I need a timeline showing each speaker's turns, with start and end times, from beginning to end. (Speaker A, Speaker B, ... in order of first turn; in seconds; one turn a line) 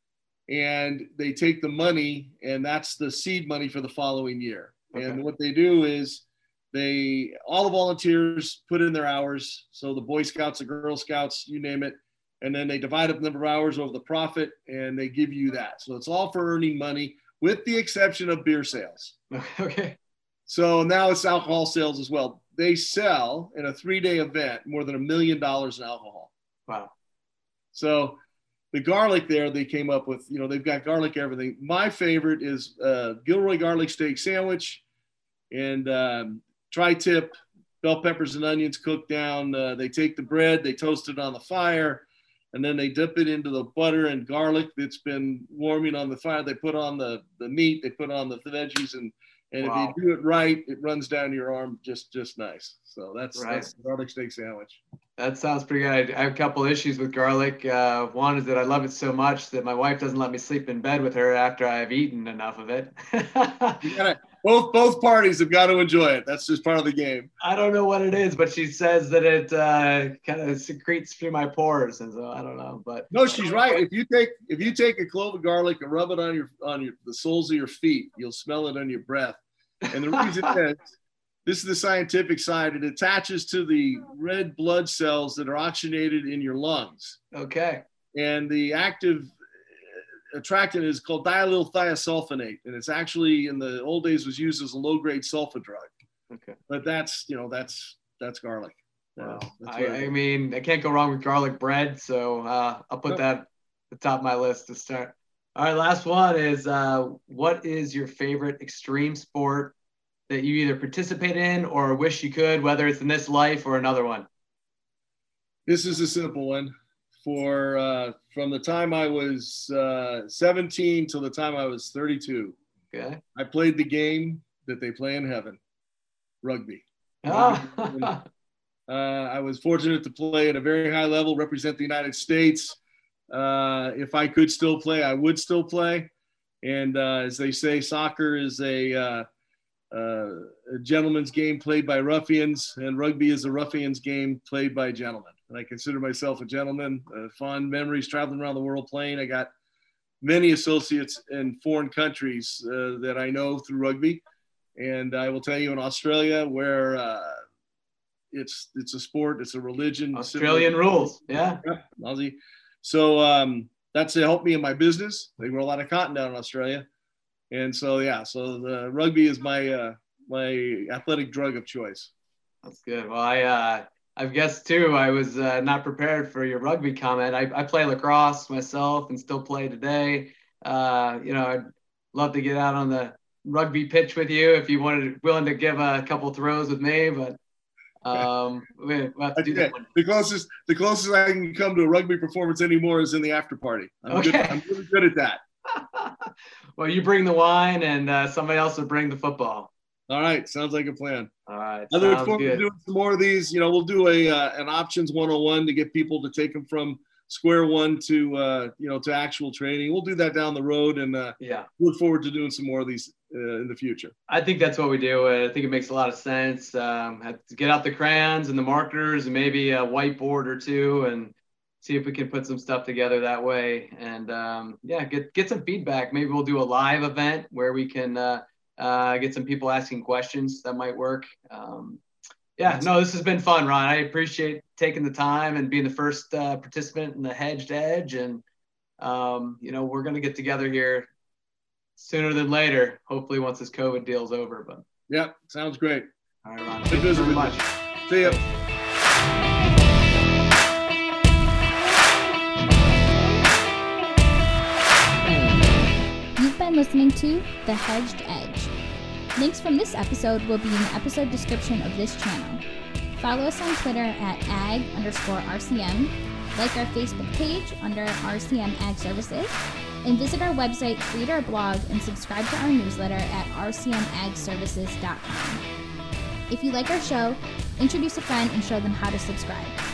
Speaker A: 0.5-19.1
Speaker B: 4.9-5.2
Speaker B: 19.3-20.0
Speaker A: 20.5-26.3
Speaker B: 26.7-26.9
Speaker A: 27.7-28.2
Speaker A: 28.7-34.8
Speaker A: 35.5-54.8
Speaker B: 49.6-50.0
Speaker B: 53.3-53.7
Speaker B: 55.2-63.9
Speaker A: 63.8-67.3
Speaker B: 67.4-73.6
Speaker A: 73.1-80.9
Speaker B: 79.9-80.5
Speaker A: 81.4-87.2
Speaker B: 87.3-87.8
Speaker A: 88.1-89.3
Speaker A: 89.9-95.9
Speaker B: 96.3-96.6
Speaker A: 96.7-100.1
Speaker B: 99.2-109.8
Speaker B: 110.3-114.3
Speaker A: 115.7-116.7
Speaker A: 117.2-122.5
Speaker B: 122.9-123.2
Speaker A: 123.3-125.6
Speaker A: 126.4-128.2
Speaker B: 127.2-128.2
Speaker A: 128.9-132.8
Speaker A: 133.3-136.1
Speaker A: 136.6-139.2
Speaker A: 139.9-149.5
Speaker A: 150.2-154.2
Speaker A: 154.8-157.4
Speaker A: 158.3-160.9
Speaker B: 160.1-161.6
Speaker A: 161.6-166.8
Speaker A: 167.5-172.1
Speaker B: 172.6-187.4
Speaker B: 188.0-189.9
Speaker A: 189.3-195.4
Speaker B: 194.1-194.6
Speaker B: 195.7-199.7
Speaker A: 200.1-201.3
Speaker B: 201.5-202.6
Speaker A: 201.9-214.1
Speaker B: 211.4-211.7
Speaker B: 214.3-232.0
Speaker B: 232.6-238.4
Speaker B: 239.0-241.1
Speaker B: 241.9-244.8
Speaker A: 245.1-246.1
Speaker B: 246.4-247.7
Speaker A: 246.9-248.4
Speaker B: 248.2-248.6
Speaker C: 256.4-258.7
Speaker C: 259.4-262.6
Speaker C: 263.2-275.6
Speaker C: 276.5-279.8